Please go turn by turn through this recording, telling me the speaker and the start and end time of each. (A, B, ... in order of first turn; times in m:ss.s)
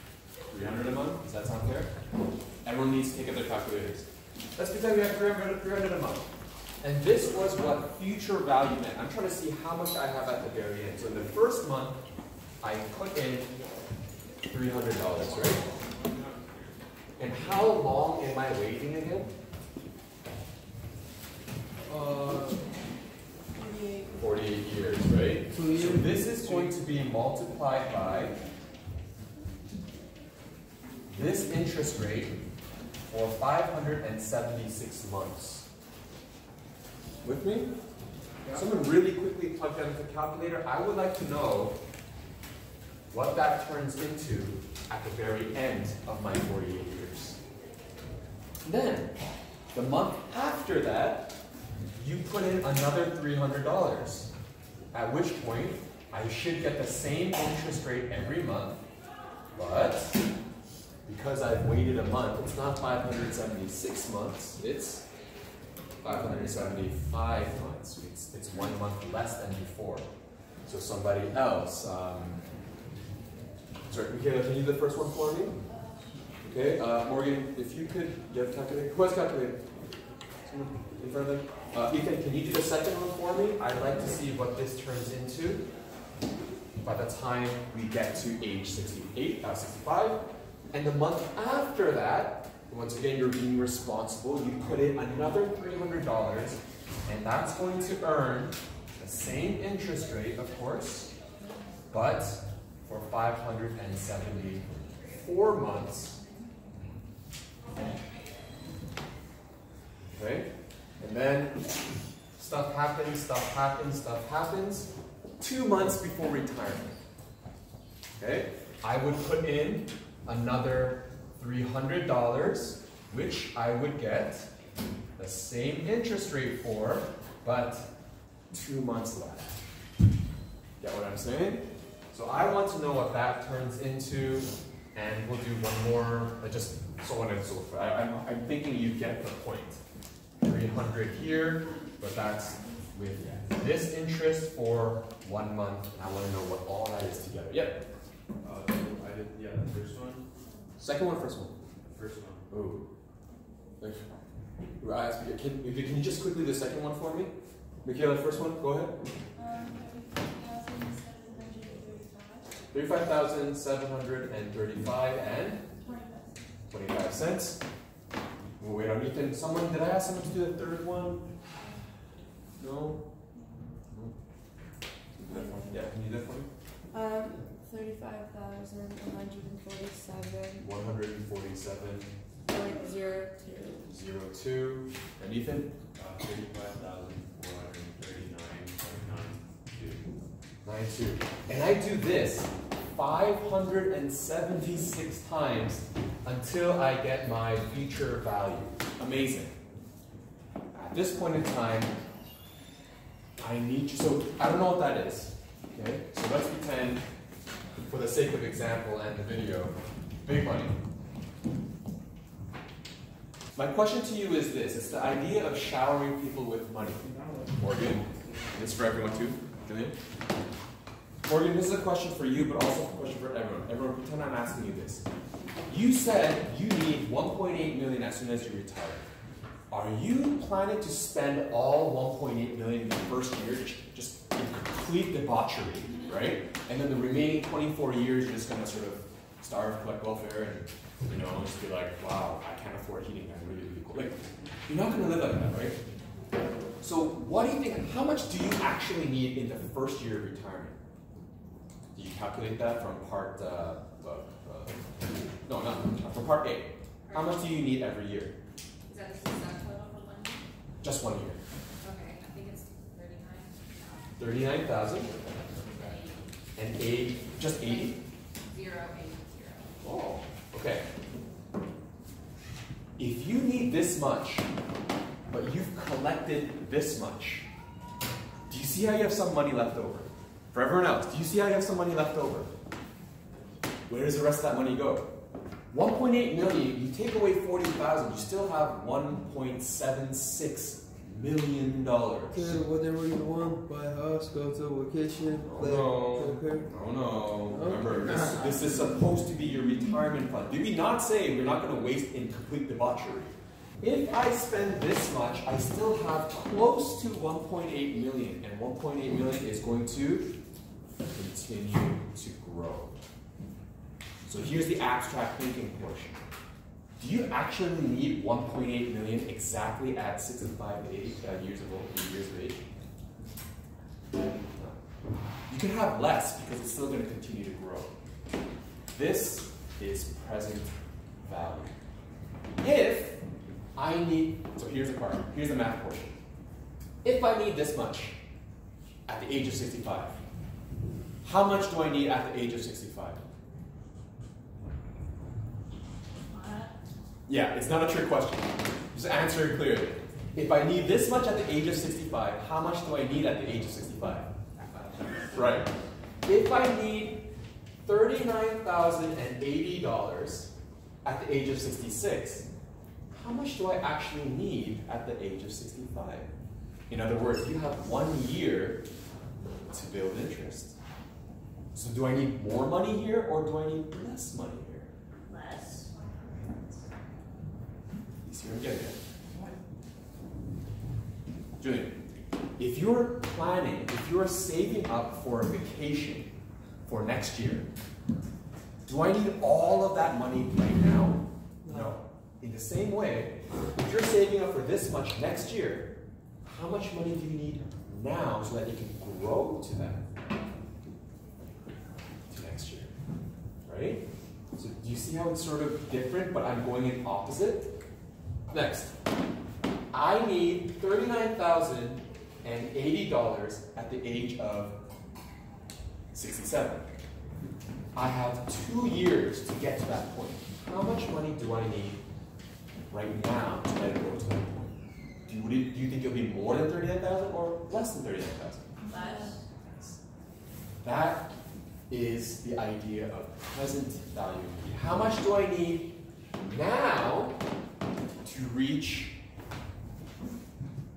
0:00.5-0:01.9 A
0:02.6-0:06.3 A
0:06.8-0:12.0 A
0:12.6-0:13.5 A
0:14.5-0:15.6 A
0:17.2-0:19.3 A
0:21.9-0:22.7 B
0:23.6-0:24.2 C
0:24.2-0:28.4 A
0:25.5-0:26.8 B
0:31.1-0:32.4 A
0:33.1-0:35.7 A
0:37.2-0:37.7 A
0:38.5-0:41.8 A
0:43.1-0:47.4 A
0:48.6-0:49.1 A
0:49.7-0:51.3 A
0:52.0-0:54.3 A
0:54.9-0:58.8 A
0:59.5-1:00.2 A
1:01.1-1:05.1 A
1:06.0-1:10.1 A
1:10.6-1:12.4 A
1:13.9-1:15.6 A
1:16.4-1:19.6 A
1:20.4-1:25.6 A
1:26.8-1:30.2 A
1:30.7-1:41.1 A
1:41.9-1:46.2 A
1:50.0-1:51.6 A
1:52.4-1:57.0 A
1:58.2-2:04.5 A
2:05.2-2:07.9 A
2:08.5-2:09.6 A
2:10.8-2:19.8 A
2:20.4-2:27.8 A
2:28.4-2:30.3 D
2:30.8-2:31.6 A
2:31.8-2:32.4 D
2:32.5-2:32.8 A
2:34.8-2:37.3 A
2:37.8-2:38.9 A
2:39.4-2:42.5 C
2:42.7-2:45.6 A
2:45.8-2:46.3 C
2:46.7-2:47.6 A
2:48.6-2:51.2 A
2:52.6-2:53.0 A
2:55.3-2:56.5 A
2:55.3-2:55.8 C
2:56.9-3:00.7 C
3:00.6-3:02.1 A
3:02.5-3:03.8 C
3:03.8-3:05.8 A
3:06.0-3:10.0 D
3:10.6-3:19.5 A
3:20.7-3:21.9 A
3:23.4-3:27.0 A
3:27.9-3:30.8 A
3:33.6-3:39.9 A
3:41.2-3:45.0 A
3:45.7-3:49.1 A
3:49.7-4:05.8 A
4:06.8-4:10.8 A
4:11.9-4:18.4 A
4:17.1-4:17.6 E
4:18.9-4:20.5 E
4:20.8-4:21.4 A
4:21.8-4:24.2 E
4:24.2-4:25.1 A
4:25.1-4:26.2 E
4:26.6-4:28.0 A
4:27.4-4:29.7 E
4:29.8-4:30.8 A
4:33.0-4:34.4 A
4:35.3-4:37.5 A
4:38.5-4:42.5 A
4:43.9-4:45.1 A
4:45.7-4:52.6 A
4:52.3-4:56.7 B
4:55.4-5:10.4 A
4:57.5-4:58.4 B
5:11.1-5:13.0 A
5:14.3-5:16.2 A
5:17.0-5:22.6 A
5:24.5-5:24.8 A
5:25.5-5:27.9 A
5:28.9-5:31.7 A
5:32.6-5:33.2 A
5:33.8-5:36.1 A
5:37.0-5:38.2 A
5:39.1-5:40.2 A
5:41.2-5:43.2 A
5:46.3-5:46.7 E
5:47.3-5:54.3 A
5:55.3-5:55.7 A
5:56.2-5:57.2 A
5:57.8-6:00.5 A
6:01.0-6:02.5 A
6:03.1-6:06.3 A
6:06.9-6:08.8 A
6:09.7-6:10.8 A
6:11.7-6:14.9 A
6:15.3-6:16.5 E
6:18.2-6:19.0 A
6:21.6-6:22.0 A
6:22.6-6:26.3 A
6:26.9-6:27.7 A
6:28.9-6:35.9 A
6:31.6-6:32.0 B
6:36.4-6:40.1 A
6:42.3-6:42.9 A
6:43.7-6:44.0 A
6:44.5-6:47.8 A
6:48.5-6:49.0 A
6:49.9-6:54.8 A
6:56.1-6:56.9 A
6:58.0-7:02.0 A
7:02.9-7:08.7 A
7:08.8-7:09.4 E
7:08.9-7:09.4 C
7:10.8-7:11.3 A
7:11.9-7:17.4 A
7:18.2-7:19.2 A